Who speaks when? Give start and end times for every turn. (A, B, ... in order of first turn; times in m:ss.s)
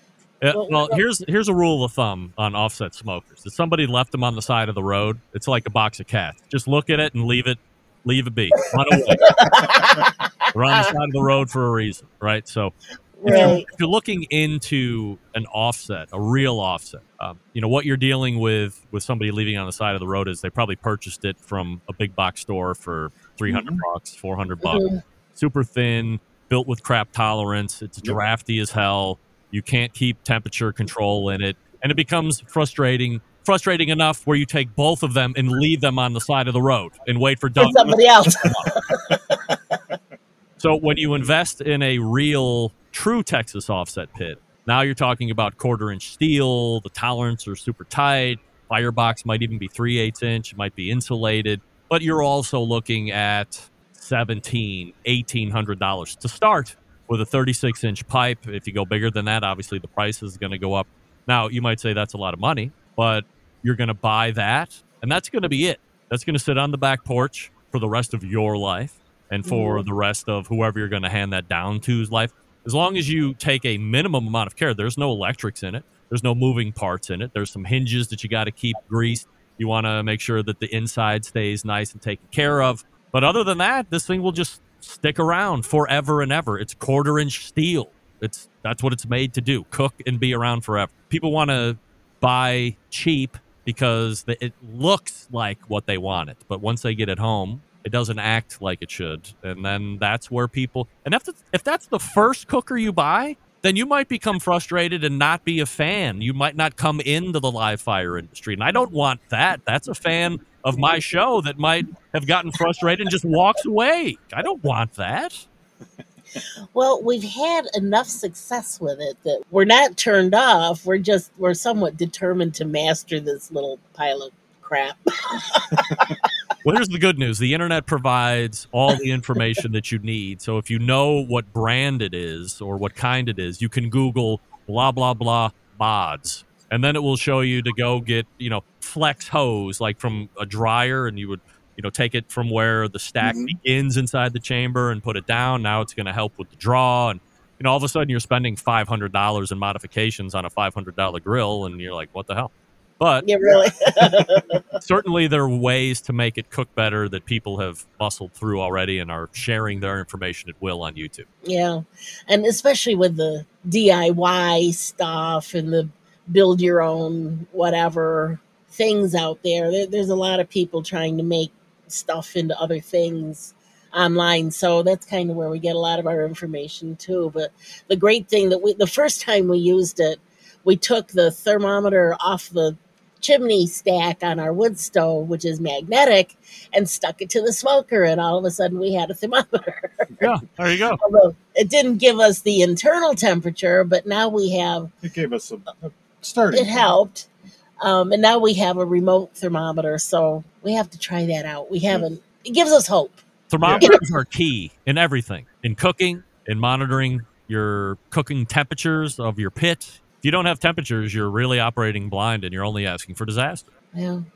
0:00.4-0:09.5 A
0:00.5-0:01.0 B
0:09.1-0:10.9 B
0:09.5-0:09.9 C
0:10.5-0:12.7 A
0:13.2-0:13.7 B
0:13.2-0:38.7 A
0:13.3-0:13.6 C
0:23.5-0:23.8 C
0:24.6-0:25.0 B
0:37.6-0:39.4 B
0:40.6-1:55.4 A
1:09.5-1:09.8 B
1:56.7-2:06.3 B
2:06.6-2:33.3 A
2:23.2-2:23.6 C
2:33.2-2:34.6 B
2:33.4-2:34.1 C
2:34.8-2:41.3 A
2:41.4-3:10.2 B
3:10.2-3:11.0 A
3:11.0-3:14.9 B
3:15.0-3:16.9 C
3:16.5-3:17.3 B
3:17.8-3:23.2 B
3:23.5-3:33.7 A
3:23.6-3:23.9 C
3:33.9-3:34.3 B